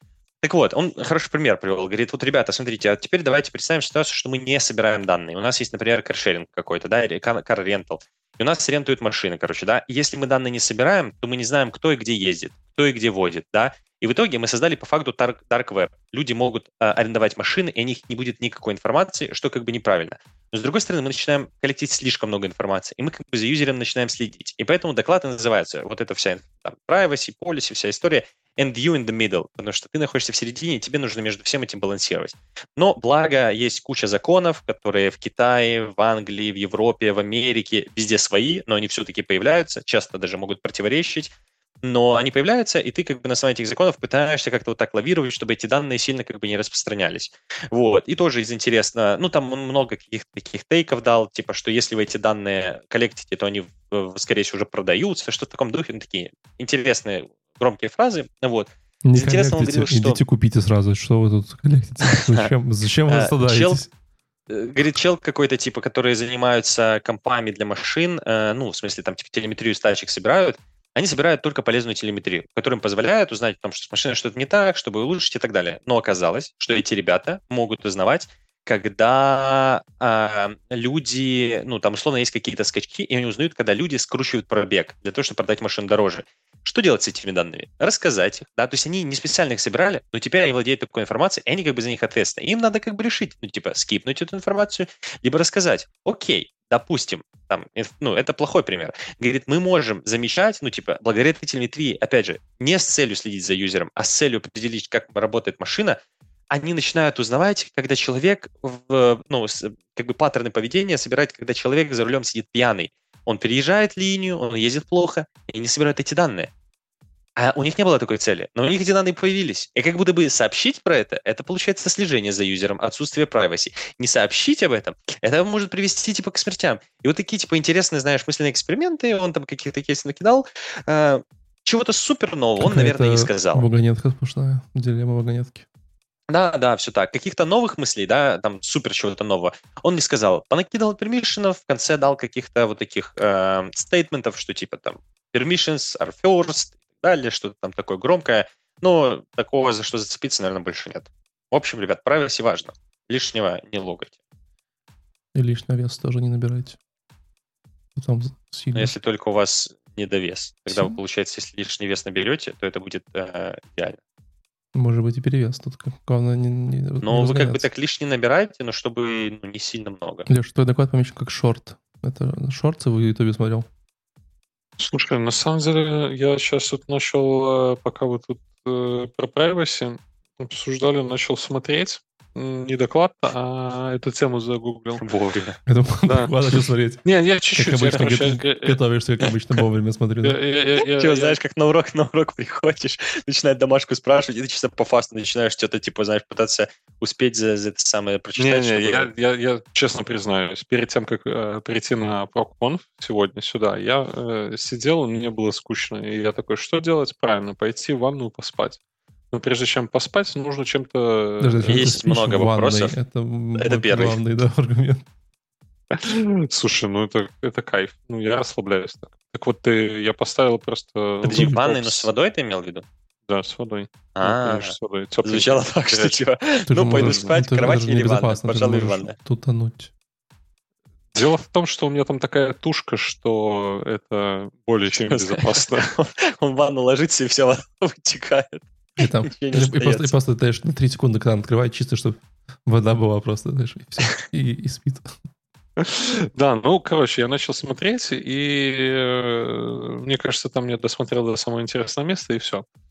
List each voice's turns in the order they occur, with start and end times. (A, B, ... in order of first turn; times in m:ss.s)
0:00.4-0:41.3 A
0:41.8-1:00.2 A
0:59.0-1:03.9 B
1:02.0-1:02.5 A
1:03.1-1:03.8 A
1:04.5-1:46.0 A
1:46.5-1:56.5 A
1:57.4-2:13.6 A
2:12.6-2:15.6 B
2:16.3-2:34.1 A
2:35.3-2:36.8 B
2:38.0-2:38.9 B
2:38.7-2:44.0 A
2:40.7-2:41.0 B
2:44.7-2:47.7 B
2:47.0-2:50.3 A
2:50.3-2:53.7 B
2:54.8-3:05.0 C
3:05.0-3:05.6 A
3:05.6-3:07.0 B
3:06.0-3:09.3 C
3:07.6-3:10.4 B
3:10.2-3:11.4 C
3:10.9-3:19.1 A
3:18.4-3:28.8 C
3:29.3-3:31.9 C
3:31.4-3:35.0 B
3:31.6-3:32.9 A
3:33.6-3:34.2 A
3:35.9-3:42.0 C
3:41.2-3:42.8 A
3:41.2-3:41.9 B
3:43.3-3:46.2 C
3:44.2-3:49.1 A
3:46.7-3:49.9 B
3:46.9-3:47.3 C
3:51.1-3:55.9 C
3:55.0-3:58.7 A
3:59.0-4:05.1 B
3:59.2-4:00.1 A
4:05.8-4:12.6 C